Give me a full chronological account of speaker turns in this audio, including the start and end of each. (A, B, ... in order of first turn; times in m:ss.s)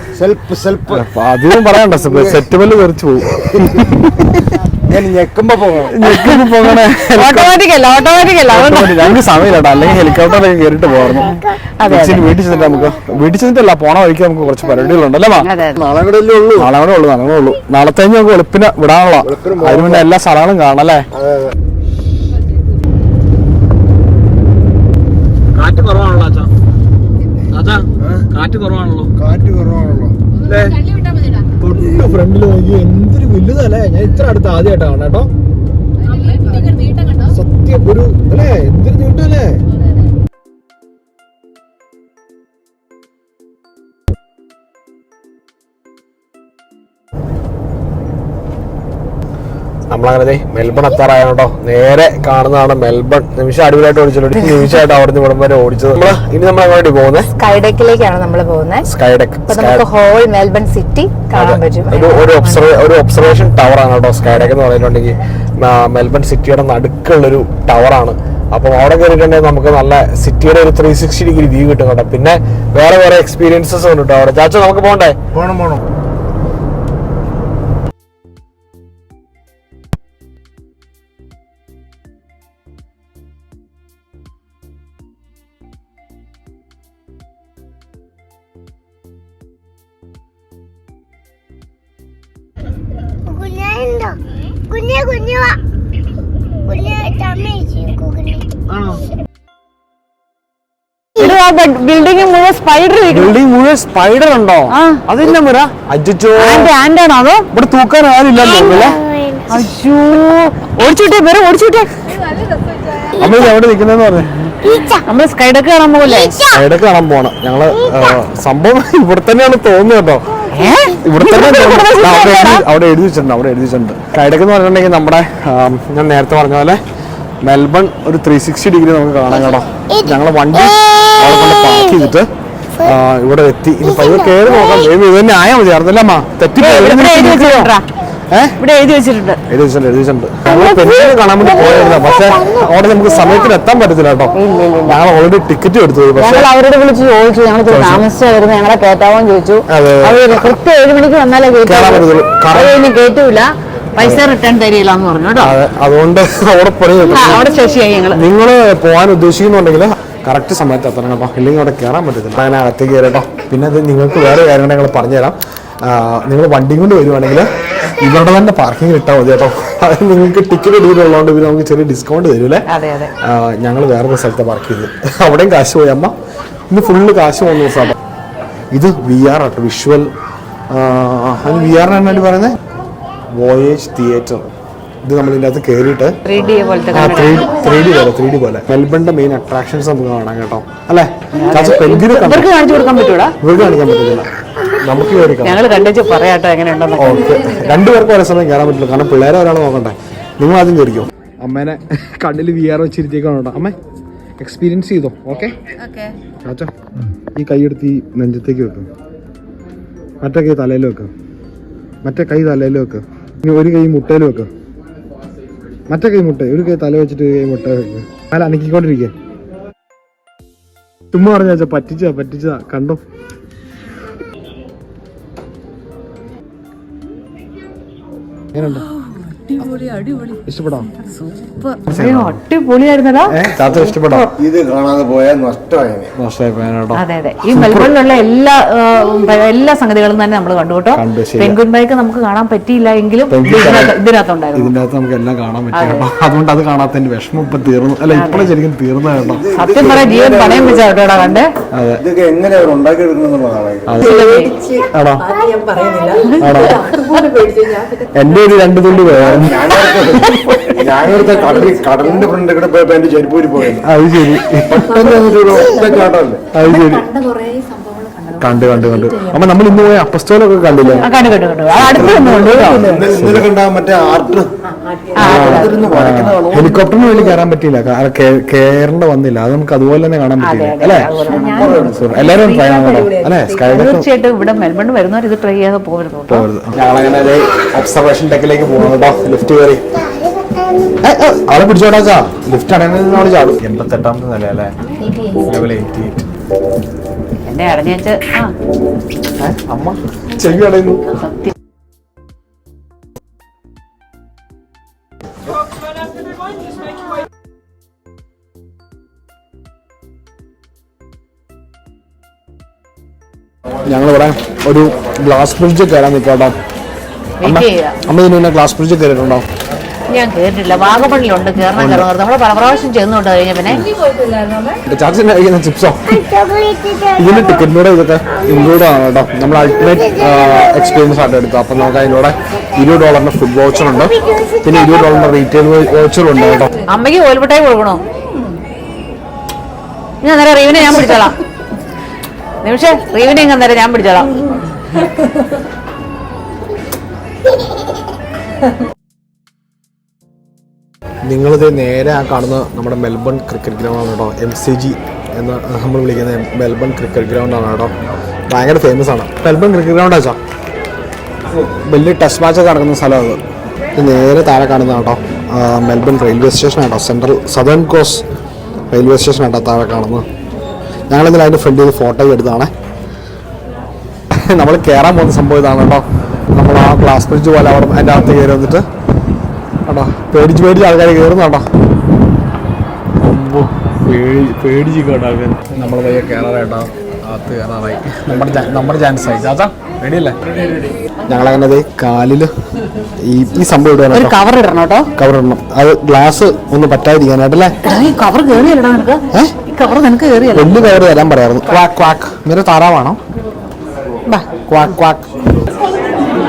0:00.1-0:01.1 A
0:00.9-0:04.3 B
0:02.0-0:02.4 A
0:03.5-0:03.9 A
0:04.9-0:06.0 A
0:05.9-0:07.6 B
0:06.1-0:09.2 C
0:08.5-0:11.3 B
0:09.9-0:10.3 D
0:11.1-0:11.6 D
0:11.4-0:12.2 C
0:11.9-0:15.5 B
0:12.6-0:13.1 D
0:15.4-0:15.8 C
0:15.8-0:16.7 A
0:16.6-0:21.1 B
0:19.2-0:20.1 A
0:21.1-0:21.5 A
0:25.6-0:26.5 B
0:27.5-0:29.1 B
0:28.0-0:28.3 A
0:29.2-0:30.2 A
0:30.4-0:30.8 B
0:31.0-0:31.4 E
0:31.6-0:35.3 B
0:36.1-0:37.2 E
0:37.2-0:39.6 B
0:49.9-0:57.3 B
0:57.3-0:58.9 E
0:58.9-0:59.9 B
0:59.5-1:02.6 E
1:01.3-1:15.2 B
1:15.3-1:15.8 A
1:33.3-1:34.2 D
1:34.7-1:35.6 D
1:36.7-1:38.4 D
1:38.7-1:39.0 B
1:41.2-1:43.3 C
1:43.1-1:46.7 B
1:44.7-1:45.0 C
1:46.4-1:47.5 C
1:47.5-1:49.0 B
1:48.4-1:49.6 D
1:49.5-1:51.9 C
1:52.1-1:53.1 E
1:53.2-1:54.3 B
1:54.6-1:55.0 D
1:55.1-1:56.4 C
1:56.0-1:56.6 D
1:56.5-2:00.3 B
1:57.8-1:58.1 D
2:00.5-2:01.0 D
2:00.5-2:02.6 C
2:01.0-2:06.8 B
2:07.4-2:12.3 B
2:09.9-2:12.0 D
2:12.8-2:17.7 B
2:13.8-2:14.9 D
2:16.6-2:17.9 C
2:18.3-2:18.6 B
2:18.6-2:19.4 C
2:19.5-2:26.5 B
2:20.5-2:23.5 D
2:24.4-2:25.0 C
2:26.2-2:35.5 C
2:27.7-2:28.1 B
2:29.7-2:30.6 B
2:31.6-2:32.8 B
2:34.0-2:34.2 B
2:35.4-2:37.4 B
2:37.1-2:38.2 C
2:38.1-2:52.7 B
2:52.7-2:53.1 C
2:53.2-2:56.2 B
2:56.7-2:58.0 B
2:58.7-3:00.1 B
3:00.7-3:02.6 B
3:03.3-3:04.5 B
3:05.0-3:06.2 B
3:06.2-3:07.6 C
3:06.9-3:12.5 B
3:11.3-3:13.4 C
3:13.4-3:14.3 B
3:14.8-3:15.6 B
3:15.4-3:17.3 C
3:17.0-3:23.8 B
3:17.0-3:17.9 E
3:24.4-3:25.6 B
3:26.4-3:26.7 B
3:27.3-3:28.9 B
3:30.2-3:31.1 B
3:32.0-3:34.5 B
3:35.9-3:39.1 B
3:41.1-3:43.0 B
3:48.5-3:48.8 B
3:49.0-3:50.4 C
3:50.5-3:50.9 B
3:51.0-3:53.4 C
3:51.9-3:52.4 B
3:53.3-3:54.3 B
3:54.4-3:56.1 A
3:56.2-3:57.9 B
3:57.0-4:04.7 C
4:00.9-4:01.6 B
4:03.3-4:04.0 B
4:04.6-4:09.4 B
4:05.7-4:06.1 C
4:08.1-4:08.5 C
4:09.2-4:10.8 A
4:09.6-4:11.5 C
4:11.7-4:12.0 B
4:12.0-4:13.9 A
4:13.9-4:14.4 B
4:14.0-4:14.5 C
4:14.0-4:18.2 E
4:14.9-4:15.2 B
4:16.4-4:16.8 B
4:18.1-4:20.6 B
4:19.0-4:23.9 A
4:21.4-4:22.1 E
4:23.8-4:25.3 B
4:24.7-4:29.5 E
4:24.7-4:26.4 A
4:26.5-4:27.0 B
4:28.4-4:31.1 B
4:30.9-4:33.1 C
4:31.7-4:33.5 B
4:32.7-4:34.5 A
4:35.2-4:35.8 C
4:35.2-4:37.4 A
4:35.2-4:44.1 B
4:40.4-4:41.9 C
4:41.3-4:43.9 E
4:43.7-4:46.5 C
4:46.3-4:49.9 B
4:50.2-4:50.9 D
4:51.0-4:54.8 B
4:55.4-4:56.2 B
4:57.4-4:58.5 C
4:59.4-5:01.0 B
5:01.2-5:01.5 C
5:13.9-5:16.6 B
5:17.4-5:18.0 C
5:17.4-5:19.5 B
5:20.1-5:23.8 C
5:21.7-5:22.1 B
5:23.7-5:24.8 E
5:24.9-5:26.2 B
5:26.1-5:27.7 D
5:27.2-5:36.7 B
5:29.8-5:30.9 D
5:33.9-5:35.3 D
5:36.9-5:38.0 C
5:40.2-5:41.4 C
5:42.6-5:44.3 C
5:51.2-5:57.9 B
5:58.5-6:00.4 B
6:01.5-6:03.4 B
6:04.0-6:08.2 B
6:08.9-6:10.2 B
6:11.1-6:12.7 B
6:14.3-6:18.9 B
6:19.9-6:21.7 B
6:23.2-6:30.4 B
6:31.3-6:32.5 B
6:33.2-6:34.4 B
6:34.1-6:35.1 C
6:35.2-6:37.8 B
6:37.8-6:41.0 C
6:40.5-6:43.2 B
6:44.7-6:45.3 B